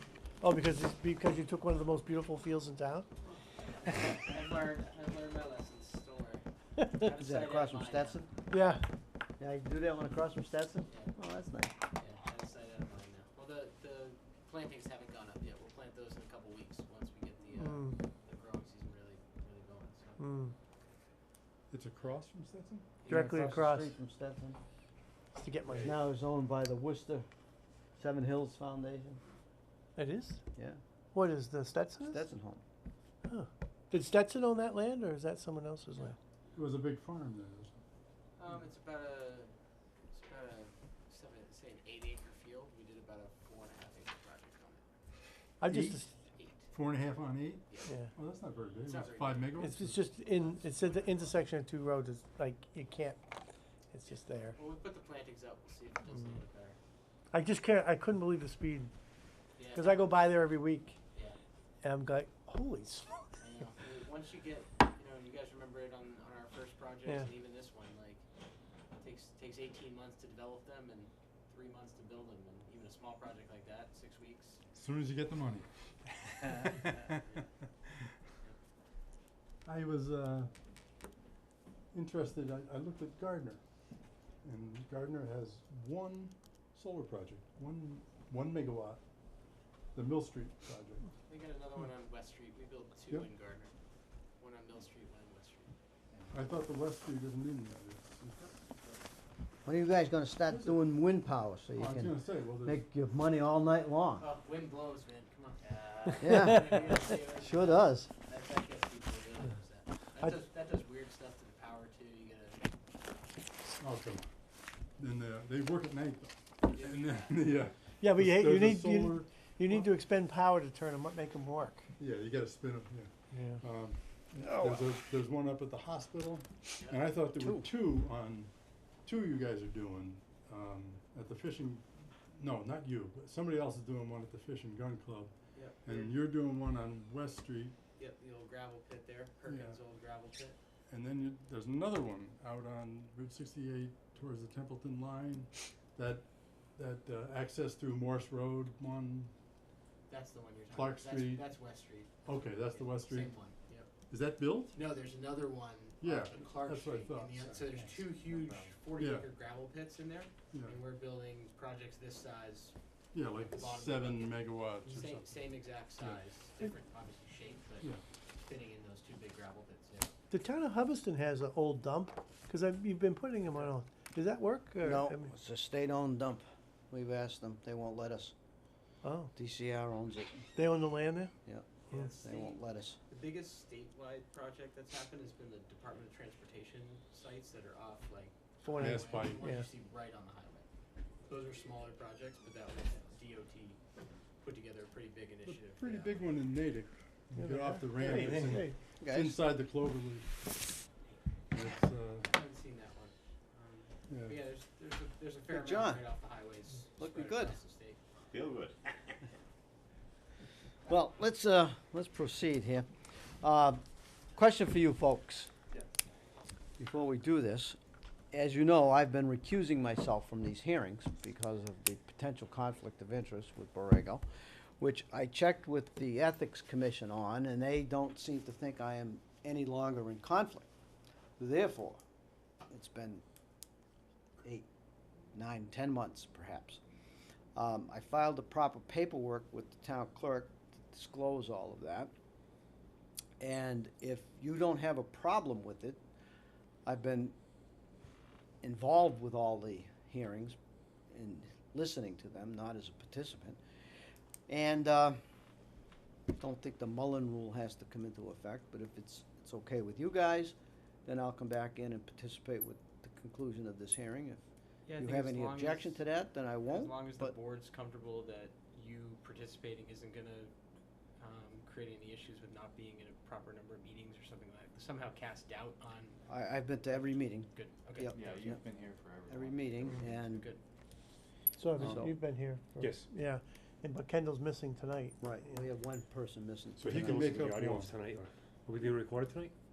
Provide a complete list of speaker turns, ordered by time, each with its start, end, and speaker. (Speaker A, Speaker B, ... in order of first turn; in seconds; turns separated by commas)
Speaker A: 0.4-3.1, Speaker B: 3.6-8.2, Speaker C: 7.2-8.3, Speaker A: 8.5-8.8, Speaker C: 9.4-11.7, Speaker B: 12.0-20.2, Speaker A: 17.6-18.0, Speaker A: 20.2-20.5, Speaker D: 21.7-23.0, Speaker B: 23.0-23.4, Speaker A: 23.1-23.9, Speaker C: 23.1-24.6, Speaker A: 25.4-25.9, Speaker C: 25.8-27.3, Speaker C: 28.0-29.2, Speaker A: 30.0-30.4, Speaker A: 31.1-32.3, Speaker C: 32.1-32.6, Speaker A: 33.3-36.2, Speaker D: 36.5-37.7, Speaker B: 38.4-39.5, Speaker B: 40.1-44.9, Speaker A: 45.6-46.1, Speaker B: 46.3-46.7, Speaker D: 46.7-49.7, Speaker A: 47.9-48.1, Speaker B: 48.8-51.3, Speaker A: 49.6-53.2, Speaker A: 53.9-54.6, Speaker B: 54.6-56.8, Speaker A: 57.3-58.9, Speaker B: 59.6-60.1, Speaker A: 59.8-61.0, Speaker A: 61.8-63.4, Speaker B: 63.4-68.2, Speaker B: 69.0-74.6, Speaker D: 74.8-77.2, Speaker B: 77.0-77.4, Speaker D: 79.7-80.5, Speaker D: 82.0-83.6, Speaker D: 84.5-89.0, Speaker D: 90.0-91.1, Speaker B: 91.3-93.7, Speaker B: 94.4-95.7, Speaker E: 96.1-96.8, Speaker D: 96.3-98.2, Speaker E: 98.2-99.0, Speaker C: 99.7-104.3, Speaker D: 101.8-102.8, Speaker B: 104.2-112.6, Speaker C: 106.2-108.1, Speaker D: 113.8-114.2, Speaker D: 115.0-119.2, Speaker B: 116.7-117.5, Speaker A: 118.0-121.9, Speaker E: 118.4-119.1, Speaker D: 122.0-123.1, Speaker A: 123.3-123.6, Speaker D: 123.7-128.5, Speaker C: 124.4-124.9, Speaker E: 124.6-124.9, Speaker C: 127.4-127.7, Speaker D: 129.1-131.9, Speaker D: 132.4-135.3, Speaker B: 135.5-136.2, Speaker D: 135.8-137.7, Speaker B: 138.0-140.6, Speaker D: 139.5-139.8, Speaker D: 140.9-146.2, Speaker D: 146.8-149.3, Speaker B: 150.1-152.1, Speaker D: 150.7-151.4, Speaker D: 152.2-153.3, Speaker B: 152.7-153.9, Speaker D: 154.1-154.7, Speaker B: 154.7-162.7, Speaker D: 156.0-157.4, Speaker E: 157.5-158.8, Speaker D: 159.0-159.3, Speaker D: 163.1-165.3, Speaker B: 163.3-167.9, Speaker B: 168.4-170.1, Speaker A: 170.3-175.3, Speaker C: 174.8-178.3, Speaker A: 179.0-179.3, Speaker C: 179.3-180.5, Speaker A: 180.6-181.3, Speaker C: 181.4-183.0, Speaker B: 181.9-190.7, Speaker A: 188.6-189.7, Speaker D: 188.9-189.4, Speaker B: 191.3-193.8, Speaker B: 194.4-196.3, Speaker D: 195.5-200.3, Speaker A: 197.3-198.8, Speaker E: 197.5-198.6, Speaker C: 199.0-199.4, Speaker D: 201.5-202.3, Speaker B: 202.3-208.0, Speaker C: 205.5-206.1, Speaker C: 207.0-207.6, Speaker E: 208.3-208.9, Speaker C: 210.9-212.9, Speaker C: 213.4-213.8, Speaker C: 214.3-215.5, Speaker C: 216.8-217.8, Speaker C: 218.3-224.2, Speaker C: 224.8-230.7, Speaker C: 231.4-232.0, Speaker C: 232.7-233.2, Speaker C: 235.3-236.8, Speaker C: 237.6-242.1, Speaker C: 243.4-246.0, Speaker C: 246.9-247.4, Speaker C: 248.6-250.6, Speaker C: 251.1-253.6, Speaker C: 254.5-255.2, Speaker C: 256.4-264.4, Speaker B: 264.9-266.0, Speaker C: 265.0-267.4, Speaker B: 266.7-270.5, Speaker B: 271.2-276.2, Speaker C: 276.3-278.6, Speaker B: 277.5-278.6, Speaker E: 278.1-280.0, Speaker C: 279.3-280.5, Speaker B: 280.0-280.6, Speaker A: 281.6-285.6, Speaker C: 281.8-282.1, Speaker F: 282.8-283.1, Speaker C: 285.2-287.6, Speaker F: 286.8-289.5, Speaker D: 287.0-287.9